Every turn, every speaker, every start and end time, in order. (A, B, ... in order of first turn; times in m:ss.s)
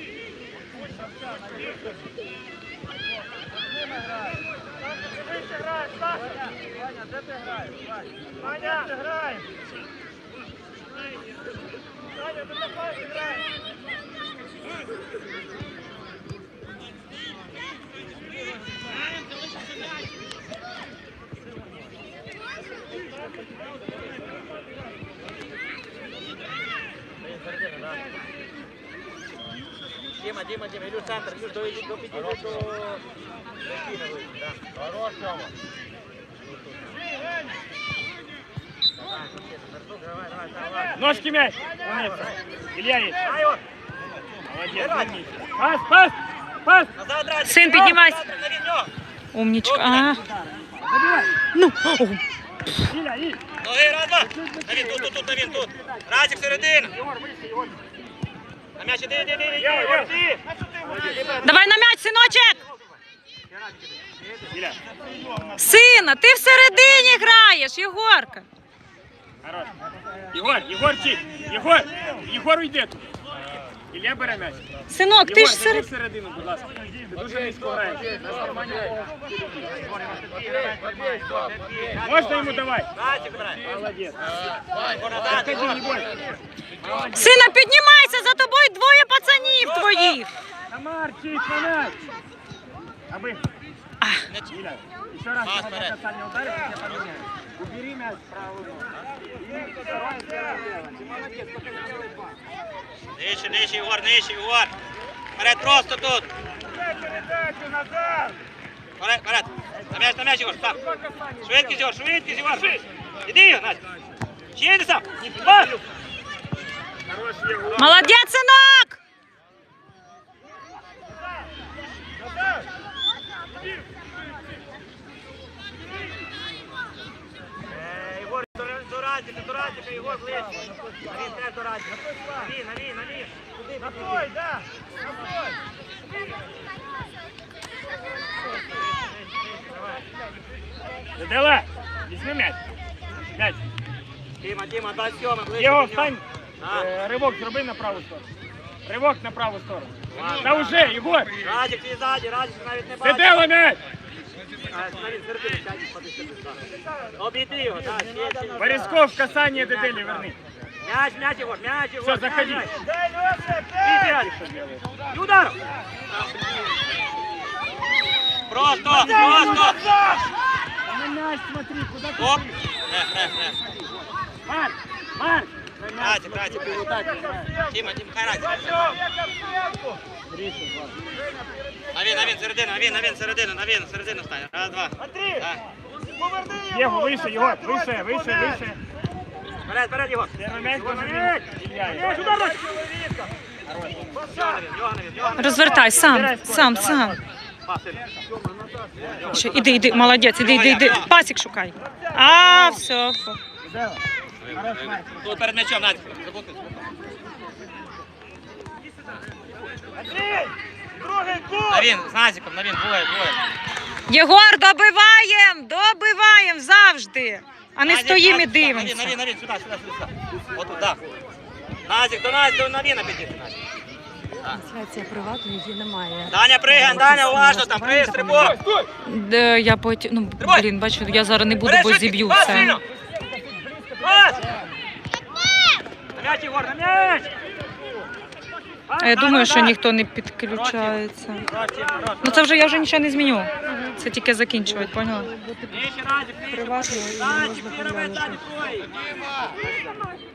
0:27.4-0:28.0 A
0:30.2-0:33.0 A
0:33.7-0:35.2 A
0:39.1-0:41.2 A
0:40.9-0:43.2 B
0:41.8-0:42.4 A
0:43.2-0:43.6 A
0:44.4-0:46.9 B
0:44.7-0:45.3 A
0:46.9-0:48.9 A
0:47.4-0:48.2 C
0:49.3-0:50.2 C
0:49.6-0:50.2 A
0:50.5-0:51.3 B
0:51.5-0:52.2 C
0:52.8-0:53.4 B
0:53.6-0:56.9 A
0:54.2-0:55.7 B
0:56.4-0:57.9 B
0:58.8-1:00.4 A
0:59.6-1:00.1 B
1:00.8-1:01.4 B
1:01.0-1:01.4 A
1:01.4-1:02.6 C
1:04.5-1:04.8 B
1:05.5-1:08.4 C
1:09.4-1:09.7 B
1:10.3-1:13.1 B
1:13.9-1:14.6 B
1:14.9-1:15.9 C
1:15.2-1:18.9 B
1:19.6-1:23.8 A
1:22.0-1:22.9 B
1:23.6-1:24.2 B
1:24.9-1:26.1 A
1:25.2-1:26.1 B
1:26.8-1:27.4 B
1:27.1-1:30.3 C
1:30.7-1:32.1 B
1:33.1-1:33.4 B
1:34.5-1:38.8 B
1:35.4-1:36.0 A
1:36.9-1:37.2 A
1:39.4-1:41.9 B
1:43.1-1:44.7 A
1:45.4-1:46.3 A
1:47.1-1:48.3 B
1:49.0-1:50.8 A
1:50.9-1:51.5 B
1:51.4-1:53.8 A
1:54.5-1:55.8 A
1:55.2-1:55.8 B
1:57.1-1:58.1 B
1:57.7-1:59.0 C
2:07.7-2:14.4 A
2:18.9-2:20.0 A
2:21.2-2:22.6 B
2:23.3-2:23.6 B
2:24.4-2:26.9 A
2:25.5-2:28.3 B
2:28.8-2:31.3 B
2:30.1-2:33.4 A
2:33.0-2:33.8 B
2:34.7-2:40.3 A
2:38.6-2:40.4 B
2:40.8-2:42.8 A
2:42.0-2:42.7 B
2:43.6-2:45.6 A
2:48.5-2:49.8 A
2:48.8-2:50.1 B
2:50.8-2:52.6 B
2:52.2-2:53.6 A
2:54.4-2:57.5 B
2:56.0-2:59.0 A
3:00.3-3:01.0 B
3:01.9-3:05.6 A
3:06.3-3:06.6 A
3:06.6-3:08.8 B
3:07.9-3:08.6 A
3:09.6-3:13.3 A
3:10.4-3:12.4 B
3:13.6-3:14.1 B
3:14.1-3:16.0 A
3:15.4-3:17.2 C
3:16.0-3:17.2 B
3:17.6-3:18.0 A
3:18.9-3:21.1 A
3:19.3-3:23.4 C
3:24.5-3:26.8 A
3:31.5-3:33.4 A
3:34.1-3:39.1 C
3:37.8-3:41.0 A
3:41.8-3:43.6 A
3:44.5-3:48.6 D
3:46.3-3:48.7 A
3:49.0-3:52.8 C
3:50.4-3:50.6 A
3:51.6-3:52.8 A
3:54.0-3:54.5 A
3:56.1-3:57.3 A
3:58.9-3:59.8 A
3:59.0-4:01.5 C
4:00.5-4:02.5 A
4:02.2-4:05.3 C
4:03.6-4:04.0 D
4:04.6-4:05.8 D
4:05.7-4:08.9 A
4:06.5-4:08.4 D